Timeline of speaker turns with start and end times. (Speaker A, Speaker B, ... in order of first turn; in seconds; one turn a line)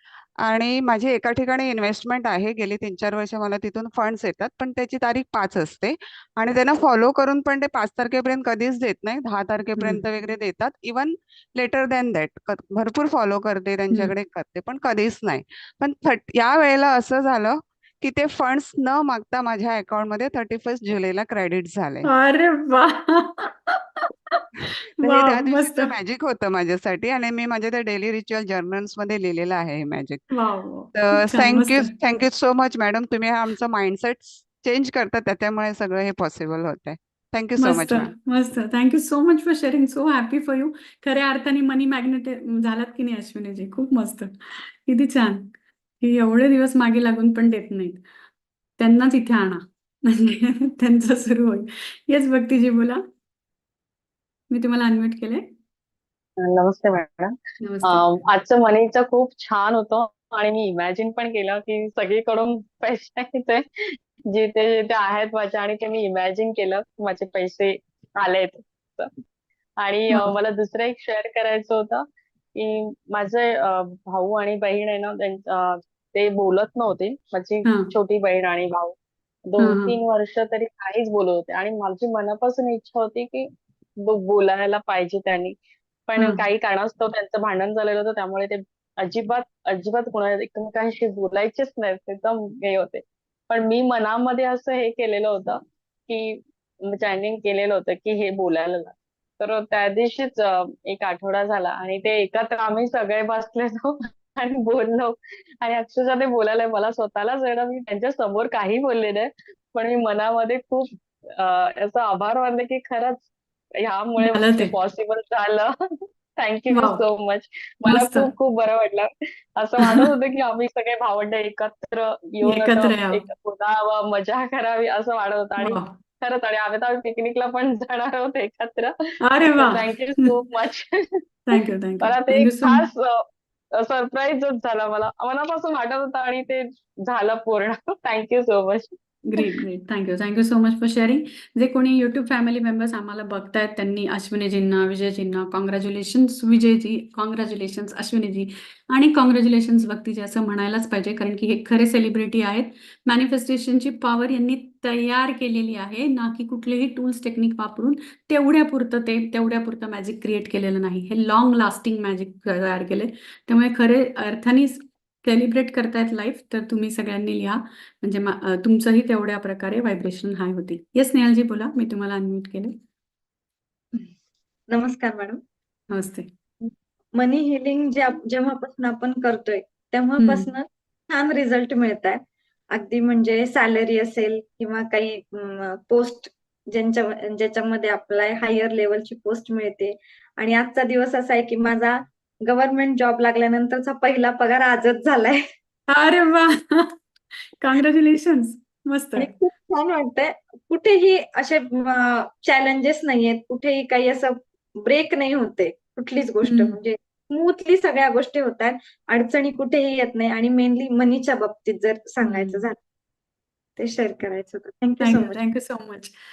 Speaker A: 0.4-22.1
Speaker B: 22.1-24.1
Speaker A: 24.7-30.2
Speaker B: 25.0-25.9
Speaker B: 30.3-31.9
Speaker A: 30.9-38.1
Speaker B: 37.6-48.0
Speaker B: 48.8-53.0
Speaker B: 54.5-55.5
Speaker C: 56.4-63.6
Speaker B: 57.6-58.1
Speaker C: 64.3-69.1
Speaker C: 69.8-72.0
Speaker C: 72.5-79.0
Speaker B: 77.7-77.9
Speaker C: 79.5-83.5
Speaker B: 79.6-80.0
Speaker C: 84.0-85.6
Speaker C: 86.1-96.4
Speaker C: 96.9-113.3
Speaker C: 113.8-115.7
Speaker B: 114.2-114.7
Speaker C: 116.4-128.9
Speaker B: 116.7-117.0
Speaker B: 117.9-118.3
Speaker B: 122.4-123.2
Speaker B: 125.6-125.9
Speaker B: 129.2-130.3
Speaker C: 129.5-131.0
Speaker B: 131.5-132.9
Speaker C: 132.0-133.2
Speaker C: 133.8-138.9
Speaker B: 139.3-172.8
Speaker D: 174.7-175.4
Speaker B: 175.9-176.3
Speaker D: 176.6-195.4
Speaker B: 180.2-180.5
Speaker B: 195.9-197.0
Speaker B: 197.6-199.3
Speaker D: 199.2-212.8
Speaker B: 206.4-206.8
Speaker B: 212.2-212.6
Speaker D: 213.8-215.4
Speaker B: 215.0-216.1